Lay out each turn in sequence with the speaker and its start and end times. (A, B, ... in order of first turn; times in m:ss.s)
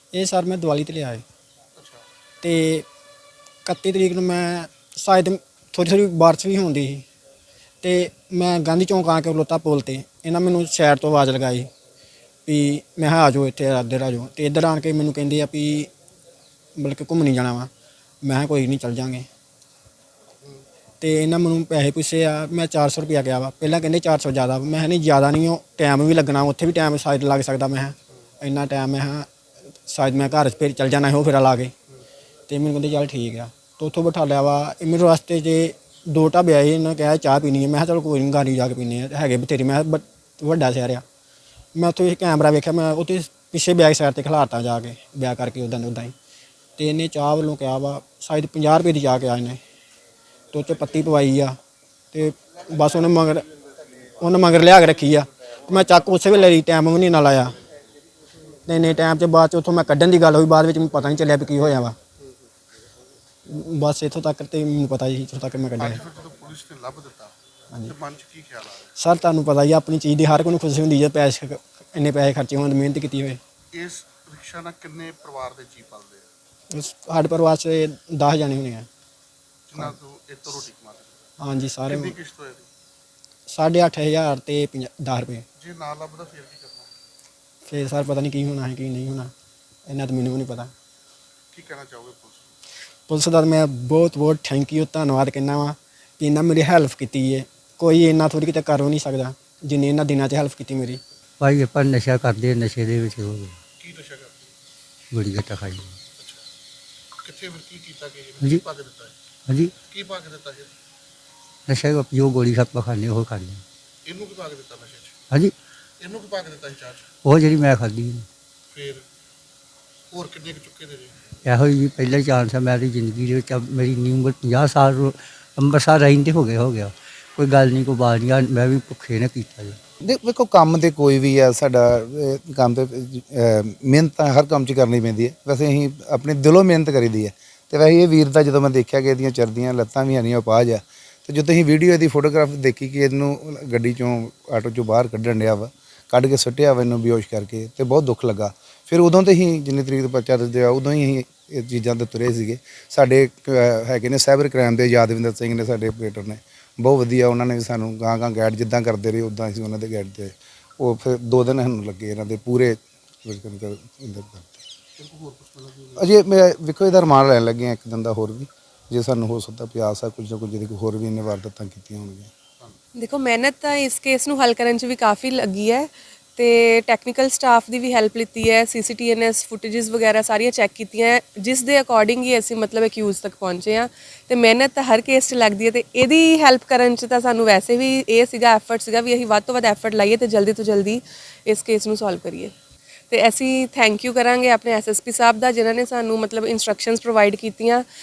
0:00.1-0:01.2 A
0:01.8-0:02.0 B
0:02.4-0:02.9 A
0:03.6-0:07.0 A
0:07.8-0:11.7 A
0:12.5-0:15.9 A
0:16.8-0:17.7 A
0:18.2-0:19.3 A
0:21.0-0:29.3 A
0:29.9-0:31.7 A
0:32.5-0:41.0 A
0:41.8-0:46.1 A
0:46.8-0:49.6 A
0:50.5-0:51.6 A
0:52.1-0:53.5 A
0:54.2-0:57.6 A
0:58.7-1:02.0 A
1:03.5-1:06.0 A
1:05.8-1:07.4 B
1:07.9-1:08.9 B
1:09.0-1:13.4 A
1:13.7-1:16.3 B
1:16.7-1:18.9 A
1:19.7-1:21.2 B
1:21.4-1:22.2 A
1:21.9-1:22.7 B
1:23.5-1:25.5 A
1:25.6-1:26.9 B
1:27.7-1:29.3 A
1:29.9-1:30.7 A
1:31.5-1:32.5 B
1:33.1-1:41.0 A
1:41.4-1:43.6 C
1:43.8-1:44.5 B
1:45.1-1:46.0 C
1:47.2-1:49.2 B
1:49.5-1:49.7 C
1:49.8-1:50.7 B
1:51.7-1:53.6 C
1:54.1-1:55.2 B
1:56.0-1:57.0 B
1:57.2-1:58.3 C
1:58.7-1:59.0 B
2:00.1-2:01.2 B
2:01.4-2:09.8 C
2:10.0-2:44.6 D
2:45.0-2:46.1 B
2:46.0-2:52.3 D
2:53.0-3:12.5 E
3:13.1-3:17.9 E